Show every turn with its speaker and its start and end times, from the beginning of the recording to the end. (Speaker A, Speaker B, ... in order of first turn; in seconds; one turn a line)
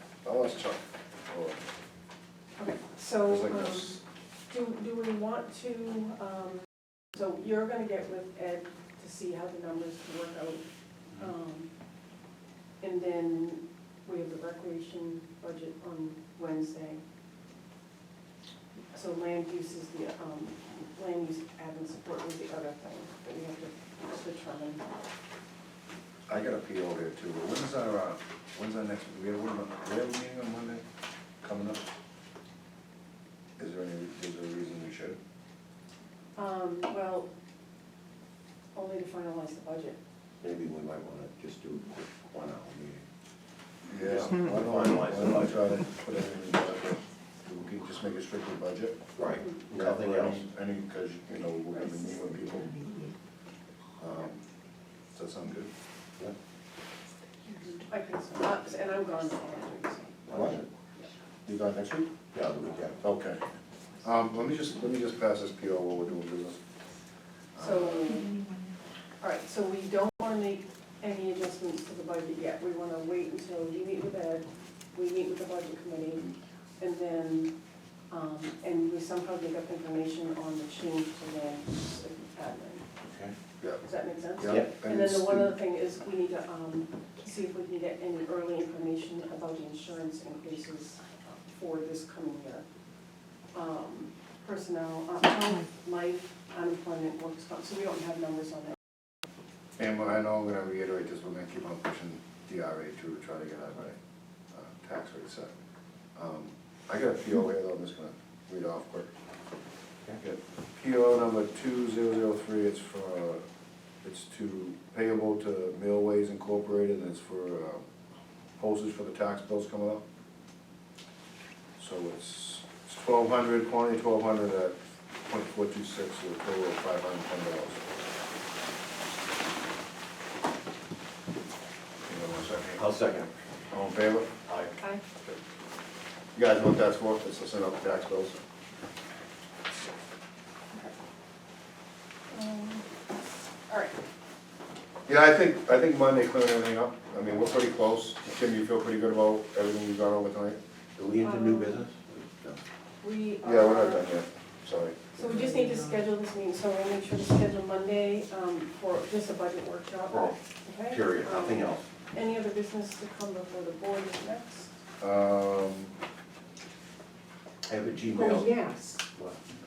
Speaker A: 0.2-1.6
Speaker B: 2.6-11.7
Speaker A: 3.2-4.0
Speaker B: 12.8-17.0
Speaker B: 18.9-24.9
Speaker A: 26.3-30.8
Speaker A: 31.4-31.9
Speaker A: 33.6-35.2
Speaker B: 36.4-37.3
Speaker B: 38.7-40.0
Speaker C: 40.4-43.0
Speaker A: 43.9-49.1
Speaker C: 44.0-45.7
Speaker C: 49.1-50.4
Speaker B: 49.3-49.7
Speaker A: 49.7-52.7
Speaker B: 51.7-52.0
Speaker D: 52.7-53.1
Speaker A: 54.0-54.4
Speaker A: 55.1-55.7
Speaker B: 57.5-61.1
Speaker A: 60.3-60.6
Speaker C: 60.3-60.7
Speaker A: 61.4-62.1
Speaker C: 62.3-63.0
Speaker A: 63.0-63.4
Speaker A: 64.0-66.6
Speaker A: 67.5-68.1
Speaker B: 67.6-68.4
Speaker B: 69.2-77.5
Speaker B: 78.1-82.8
Speaker C: 83.0-83.3
Speaker B: 83.8-92.6
Speaker A: 84.4-85.5
Speaker B: 93.5-98.8
Speaker A: 99.8-104.0
Speaker A: 104.5-105.5
Speaker A: 106.2-109.1
Speaker A: 110.2-113.4
Speaker A: 114.0-117.8
Speaker A: 118.6-120.0
Speaker A: 121.8-124.7
Speaker A: 125.2-127.8
Speaker A: 132.1-132.8
Speaker C: 132.8-133.3
Speaker A: 133.7-134.3
Speaker C: 134.4-134.8
Speaker A: 136.3-138.4
Speaker B: 142.3-143.0
Speaker B: 143.7-143.9
Speaker A: 145.1-150.6
Speaker C: 150.9-152.6
Speaker B: 151.2-151.8
Speaker B: 153.0-154.1
Speaker A: 153.4-155.1
Speaker B: 155.1-164.7
Speaker D: 155.2-156.0
Speaker C: 160.1-160.3
Speaker C: 160.9-161.9
Speaker A: 165.0-165.9
Speaker C: 167.7-168.5
Speaker D: 168.1-169.0